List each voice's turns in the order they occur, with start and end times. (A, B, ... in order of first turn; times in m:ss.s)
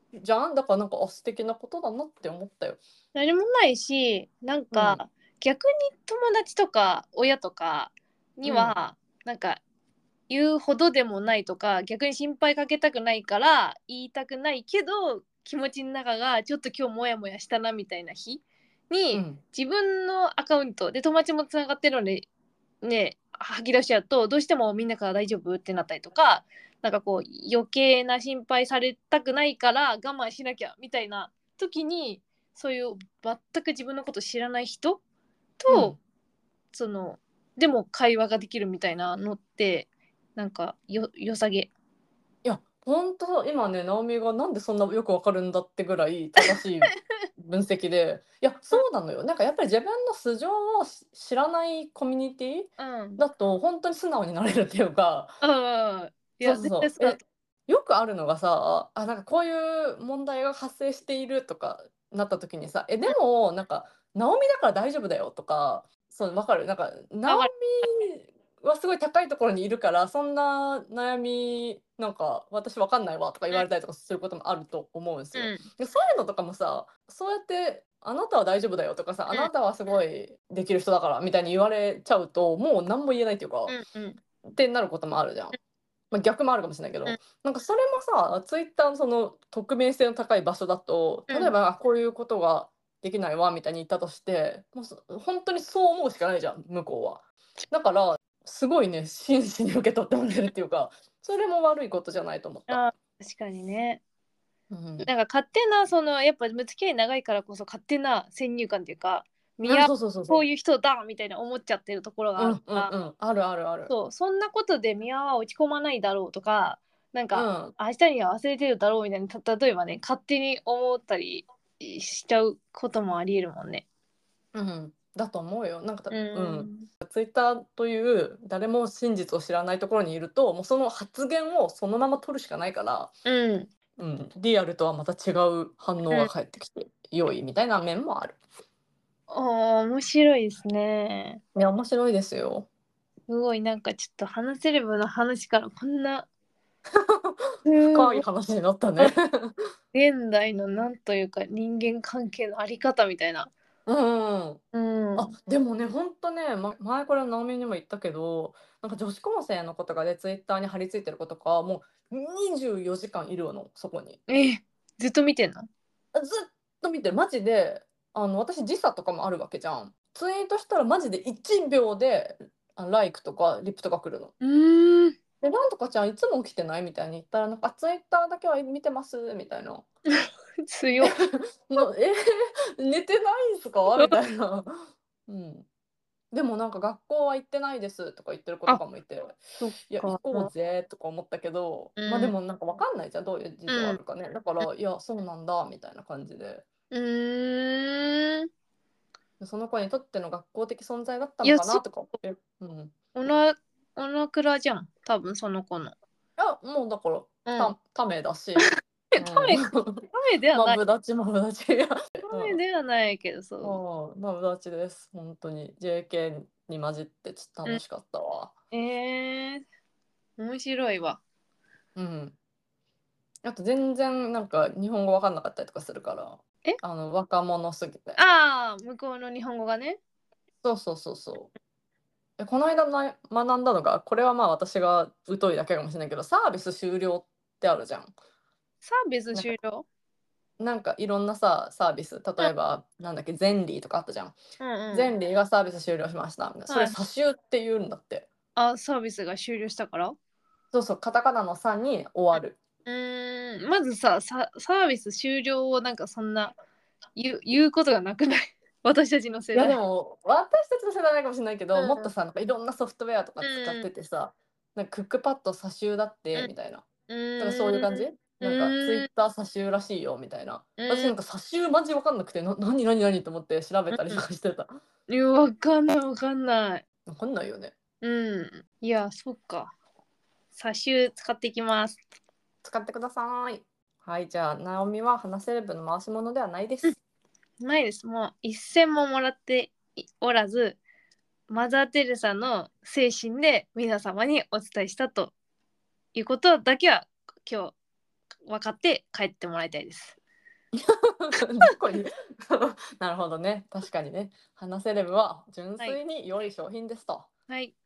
0:00.2-0:02.8 A
0:03.1-0:09.6 B
0:04.7-0:05.0 A
0:08.4-0:08.8 A
0:10.3-0:22.2 B
0:19.1-0:19.4 A
0:22.8-0:35.0 B
0:35.6-0:36.0 B
0:35.7-0:36.0 A
0:36.7-0:41.7 B
0:42.4-0:55.4 A
0:52.8-0:53.2 B
0:55.4-0:57.2 B
0:56.4-1:23.8 A
1:15.4-1:15.7 B
1:23.7-1:24.2 B
1:24.5-1:25.6 A
1:26.1-1:42.8 A
1:42.7-1:44.0 B
1:44.7-1:45.1 A
1:45.0-1:52.9 B
1:49.6-1:50.4 A
1:52.4-1:53.9 A
1:53.9-2:03.8 B
1:57.3-1:57.7 A
2:04.5-2:13.1 A
2:06.1-2:06.9 B
2:13.2-2:13.7 B
2:14.0-2:18.4 A
2:19.3-2:21.4 B
2:21.5-2:22.7 A
2:23.3-2:26.3 B
2:26.9-2:29.6 A
2:27.6-2:28.2 B
2:29.9-2:33.5 B
2:33.8-2:34.6 A
2:34.7-2:35.3 B
2:35.2-2:44.2 A
2:44.3-2:45.7 B
2:46.1-2:54.3 A
2:54.4-2:55.2 B
2:55.4-2:59.8 A
3:00.2-3:01.2 B
3:01.0-3:04.7 A
3:05.3-3:05.6 A
3:06.3-3:16.6 A
3:09.6-3:10.5 B
3:12.0-3:12.4 B
3:13.7-3:14.0 B
3:16.9-3:18.5 B
3:19.4-3:22.9 A
3:21.4-3:21.8 B
3:23.1-3:25.9 B
3:26.4-3:32.6 A
3:27.5-3:27.7 B
3:28.6-3:30.8 B
3:32.2-3:33.8 B
3:33.6-3:38.5 A
3:38.7-3:39.6 B
3:40.4-3:41.2 B
3:42.0-3:42.4 A
3:43.4-3:48.2 A
3:48.2-3:50.0 B
3:50.6-3:51.5 A
3:52.4-3:58.1 A
3:58.8-3:59.8 B
4:00.6-4:04.4 A
4:04.6-4:05.1 B
4:04.9-4:08.3 A
4:06.7-4:07.0 B
4:08.6-4:10.2 B
4:10.7-4:12.6 A
4:12.8-4:16.6 B
4:17.2-4:19.8 B
4:19.5-4:26.8 A
4:21.8-4:22.1 B
4:23.4-4:23.9 B
4:27.1-4:29.1 B
4:27.4-4:34.7 A
4:30.8-4:31.2 B
4:33.9-4:34.2 B
4:35.1-4:36.8 B
4:37.1-4:37.8 A
4:38.0-4:39.7 B
4:40.5-4:42.0 B
4:42.6-4:47.0 A
4:47.6-4:50.8 B
4:51.5-4:55.3 B
4:56.1-4:57.7 B
4:58.5-5:00.2 B
5:00.8-5:07.3 A
5:07.5-5:07.7 B